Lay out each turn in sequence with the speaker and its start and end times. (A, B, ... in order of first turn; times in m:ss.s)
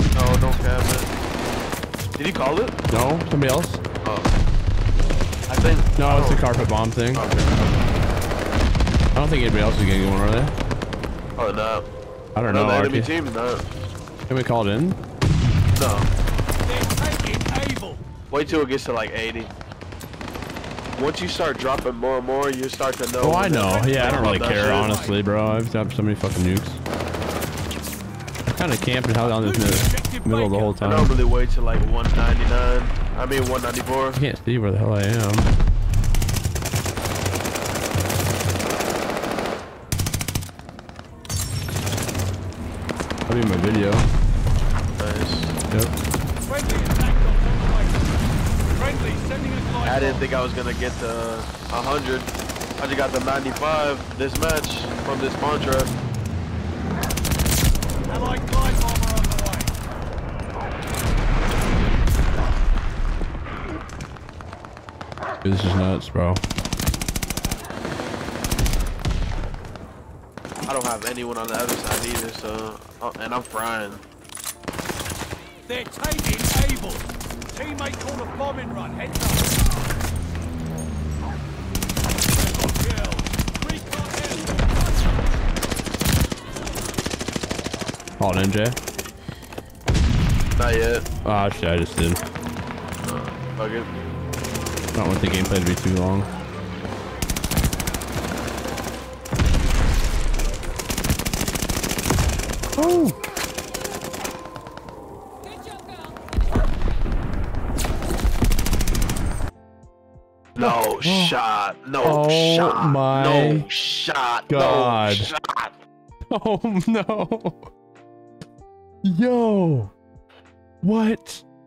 0:00.1-0:01.1 A
0:02.2-0:02.7 A
0:02.9-0:03.8 B
0:04.0-0:04.3 A
0:05.5-0:06.4 A
0:06.0-0:07.2 B
0:07.1-0:07.8 A
0:09.1-0:10.5 B
0:11.4-0:11.9 A
0:12.3-0:13.1 B
0:12.5-0:13.6 A
0:14.3-0:15.0 B
0:15.7-0:16.1 A
0:16.6-0:18.0 C
0:18.3-0:19.5 A
0:21.0-0:24.9 A
0:23.2-0:26.8 B
0:23.6-0:25.2 C
0:28.5-0:31.1 B
0:29.2-0:31.0 C
0:30.8-0:34.2 A
0:34.1-0:35.5 B
0:43.3-0:44.1 B
0:45.0-0:45.6 A
0:46.4-0:50.2 C
0:49.8-0:55.9 A
0:58.0-0:59.7 C
1:05.4-1:06.4 B
1:10.7-1:14.0 A
1:15.6-1:19.6 C
1:22.3-1:25.2 C
1:28.2-1:28.8 B
1:30.6-1:31.0 A
1:31.2-1:32.2 B
1:33.0-1:33.9 A
1:34.9-1:36.3 B
1:42.8-1:43.2 B
1:50.5-1:55.7 A
1:50.6-1:51.4 B
1:52.0-1:53.7 B
1:54.5-1:55.3 B
1:56.3-1:57.7 B
1:59.0-1:59.9 B
2:00.8-2:01.4 B